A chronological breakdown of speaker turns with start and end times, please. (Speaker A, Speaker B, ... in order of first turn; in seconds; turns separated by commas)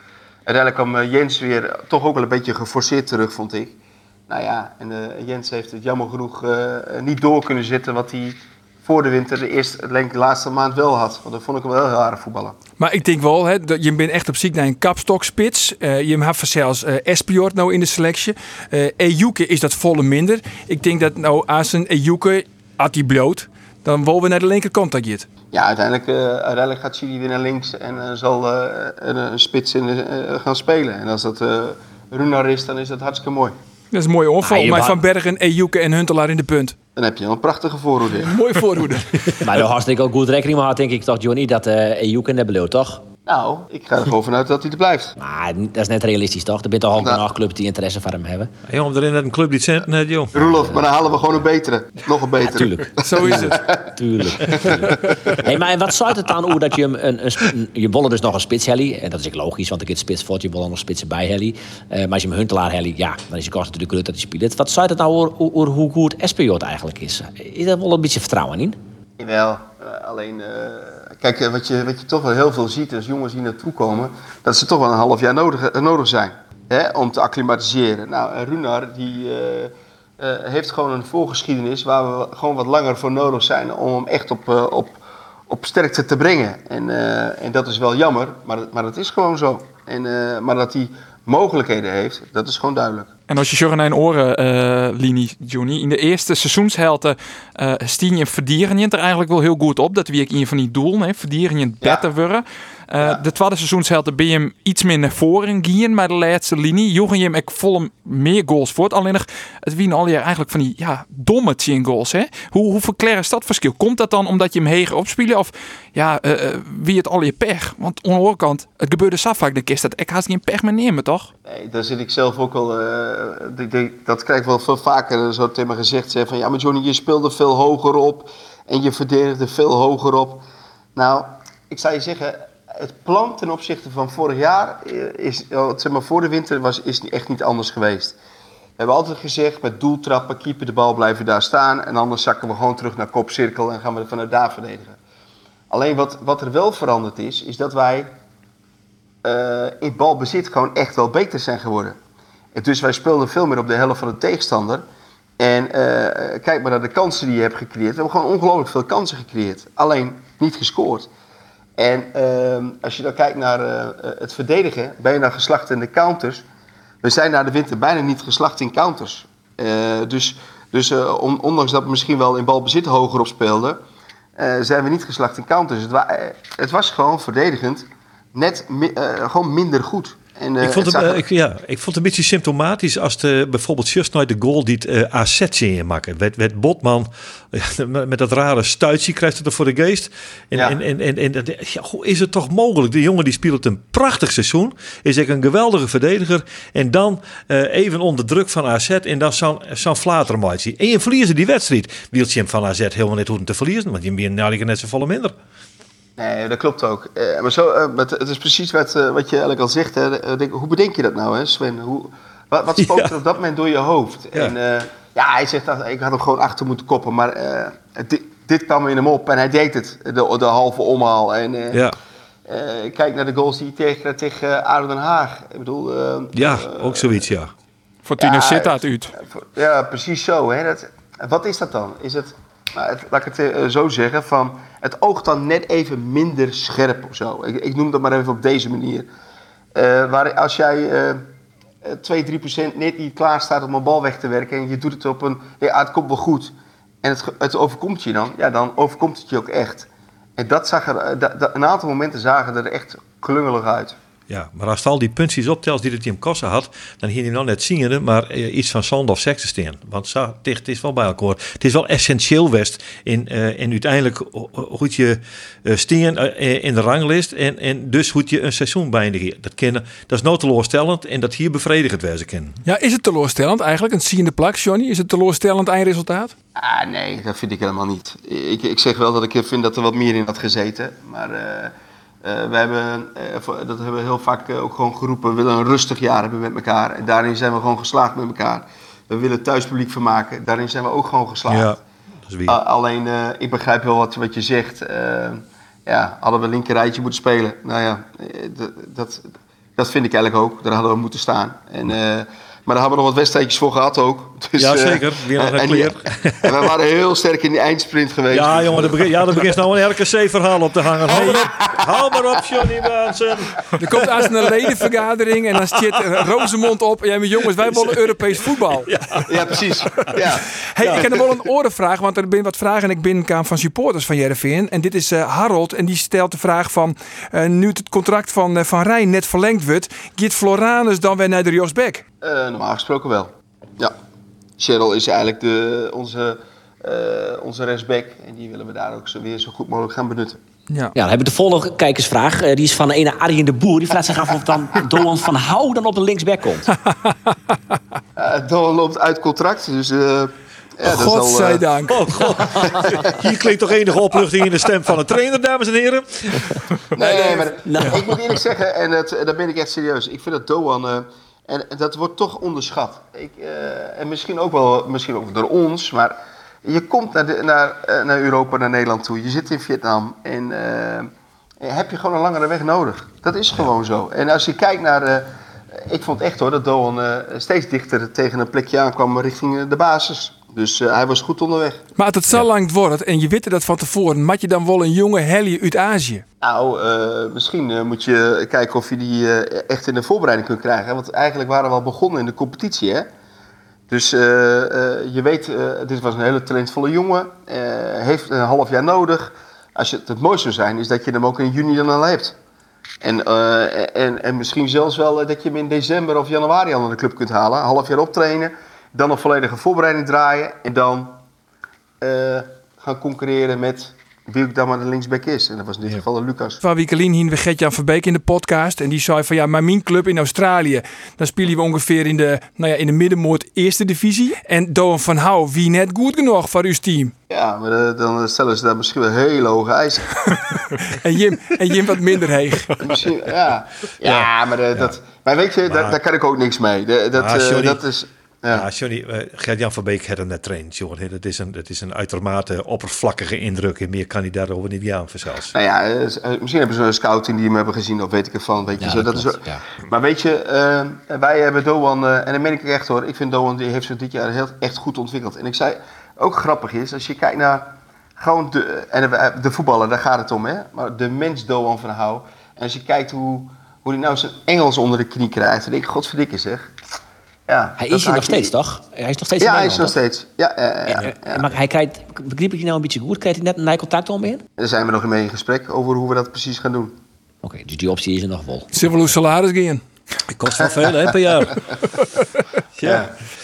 Speaker A: 0.5-3.7, Speaker A: 4.3-12.5, Speaker B: 12.8-25.2, Speaker A: 25.5-33.5, Speaker B: 33.9-36.7, Speaker C: 34.4-35.0, Speaker A: 37.0-38.4, Speaker B: 38.2-39.3, Speaker C: 39.4-43.0, Speaker A: 43.3-45.1, Speaker C: 45.2-48.5, Speaker A: 47.0-47.2, Speaker D: 48.7-50.4, Speaker A: 50.3-55.1, Speaker C: 50.4-51.4, Speaker C: 52.4-68.8, Speaker B: 53.0-53.6, Speaker A: 69.2-93.1, Speaker E: 93.3-121.3, Speaker A: 121.5-138.1, Speaker A: 138.8-145.0, Speaker A: 145.7-148.1, Speaker A: 149.2-152.0, Speaker A: 152.5-154.8, Speaker A: 155.4-161.1, Speaker A: 161.8-166.4, Speaker A: 167.0-173.8, Speaker A: 174.4-181.2, Speaker D: 180.6-205.3, Speaker A: 206.2-221.8, Speaker D: 212.8-213.1, Speaker A: 222.5-227.2, Speaker D: 226.3-227.5, Speaker E: 228.0-229.1, Speaker A: 228.2-239.1, Speaker A: 239.7-241.2, Speaker A: 241.8-253.9, Speaker D: 254.3-272.6, Speaker B: 272.6-276.3, Speaker A: 276.6-291.8, Speaker D: 291.5-292.6, Speaker A: 292.5-309.4, Speaker D: 304.6-306.7, Speaker D: 308.3-314.9, Speaker A: 311.1-311.9, Speaker B: 313.8-318.9, Speaker D: 315.5-316.1, Speaker D: 317.5-320.1, Speaker A: 319.3-321.1, Speaker B: 320.7-332.0, Speaker D: 320.8-321.1, Speaker A: 332.2-333.9, Speaker A: 334.6-340.4, Speaker C: 340.9-346.7, Speaker A: 348.2-351.6, Speaker B: 350.8-352.3, Speaker D: 351.9-356.6, Speaker A: 356.9-371.1, Speaker C: 357.0-358.4, Speaker A: 371.6-375.3, Speaker A: 375.9-381.8, Speaker B: 382.0-386.2, Speaker A: 386.4-393.1, Speaker A: 393.9-402.4, Speaker A: 403.0-411.1, Speaker A: 412.0-416.6, Speaker B: 416.6-427.1, Speaker A: 427.3-430.4, Speaker B: 430.7-432.8, Speaker A: 432.8-438.6, Speaker D: 434.0-434.9, Speaker D: 435.7-436.0, Speaker D: 437.1-437.8, Speaker D: 438.5-445.5, Speaker A: 445.5-466.7, Speaker C: 448.8-449.6, Speaker A: 467.5-468.5, Speaker C: 467.8-469.9, Speaker A: 469.4-471.5, Speaker C: 470.9-474.4, Speaker A: 474.6-477.0, Speaker C: 477.4-478.7, Speaker B: 478.7-479.8, Speaker D: 480.3-481.6, Speaker D: 482.8-483.1, Speaker A: 482.8-483.1